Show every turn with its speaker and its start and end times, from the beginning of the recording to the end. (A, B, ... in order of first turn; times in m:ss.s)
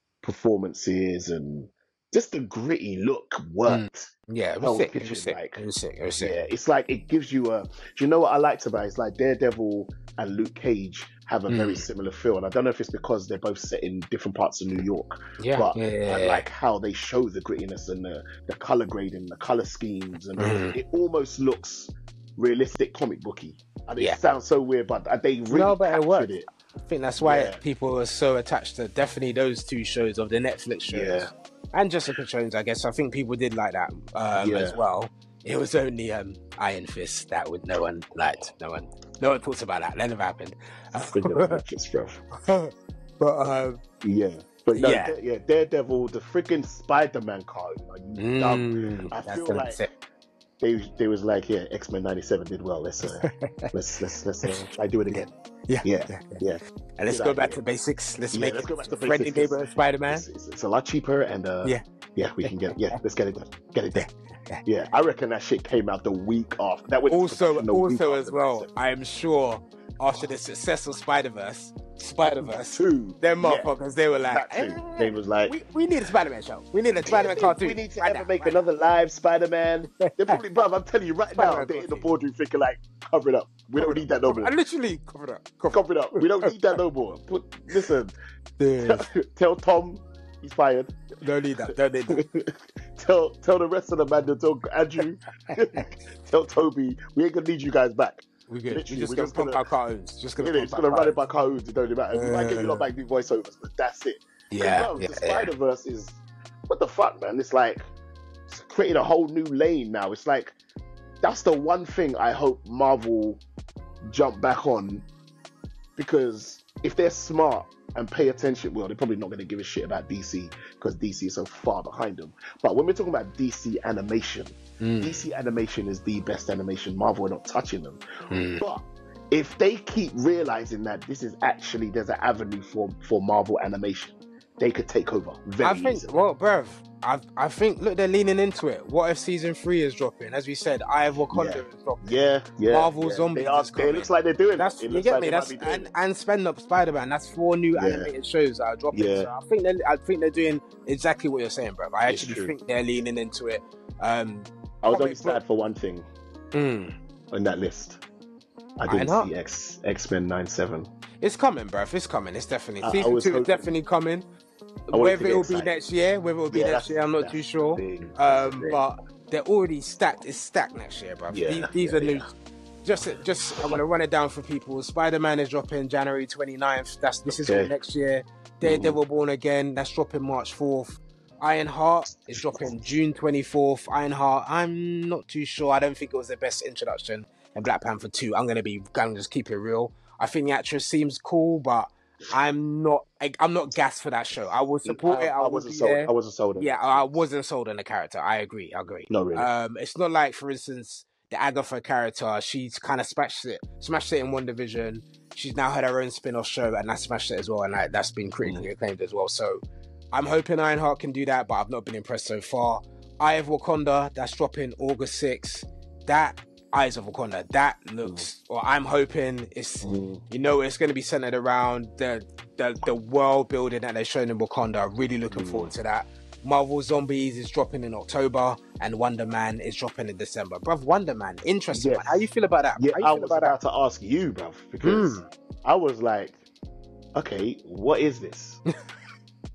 0:00.2-0:05.6 A
0:03.7-0:06.4 B
0:06.2-0:26.4 A
0:11.5-0:11.9 B
0:15.4-0:16.4 B
0:20.4-0:20.8 B
0:25.5-0:41.6 B
0:27.2-0:27.6 A
0:30.9-0:31.3 A
0:34.4-0:34.8 A
0:41.1-0:42.2 A
0:42.4-0:43.8 B
0:44.0-0:49.8 A
0:44.8-0:45.1 B
0:48.2-0:49.9 B
0:50.6-0:55.3 A
0:53.0-0:53.7 B
0:54.4-0:56.4 B
0:55.8-0:57.6 A
0:57.0-1:00.2 B
0:58.3-1:04.1 A
1:02.4-1:03.0 B
1:03.9-1:04.6 B
1:04.6-1:08.7 A
1:07.1-1:18.6 B
1:12.4-1:13.7 A
1:14.3-1:15.6 A
1:17.0-1:24.5 A
1:20.0-1:20.4 B
1:21.3-1:22.0 B
1:23.8-1:26.6 B
1:25.7-1:28.1 A
1:28.6-1:29.1 B
1:28.8-1:31.0 A
1:31.2-1:32.2 B
1:32.1-1:39.6 A
1:38.5-1:41.2 B
1:40.4-1:47.8 A
1:42.1-1:42.9 B
1:44.5-1:45.5 B
1:48.5-1:50.6 A
1:51.2-1:53.4 A
1:54.1-1:55.1 A
1:56.0-2:08.0 A
2:04.8-2:05.2 B
2:08.3-2:08.6 B
2:08.6-2:16.1 A
2:15.6-2:35.4 B
2:21.3-2:25.9 A
2:27.8-2:28.1 A
2:28.9-2:29.3 A
2:32.1-2:32.5 A
2:34.8-2:36.1 A
2:36.5-2:37.0 B
2:37.3-2:38.0 A
2:38.8-2:40.9 A
2:38.9-2:39.3 B
2:41.2-2:44.2 B
2:42.8-2:43.7 A
2:44.9-2:52.3 B
2:44.9-2:45.7 A
2:46.5-2:48.8 A
2:51.3-2:52.2 A
2:52.8-3:53.6 B
2:57.3-2:57.7 A
2:58.6-2:59.0 A
3:02.4-3:02.7 A
3:14.9-3:17.2 A
3:19.1-3:19.5 A
3:39.8-3:40.2 A
3:45.3-3:45.7 A
3:51.7-3:56.4 A
3:54.8-3:55.3 B
3:57.1-3:58.6 A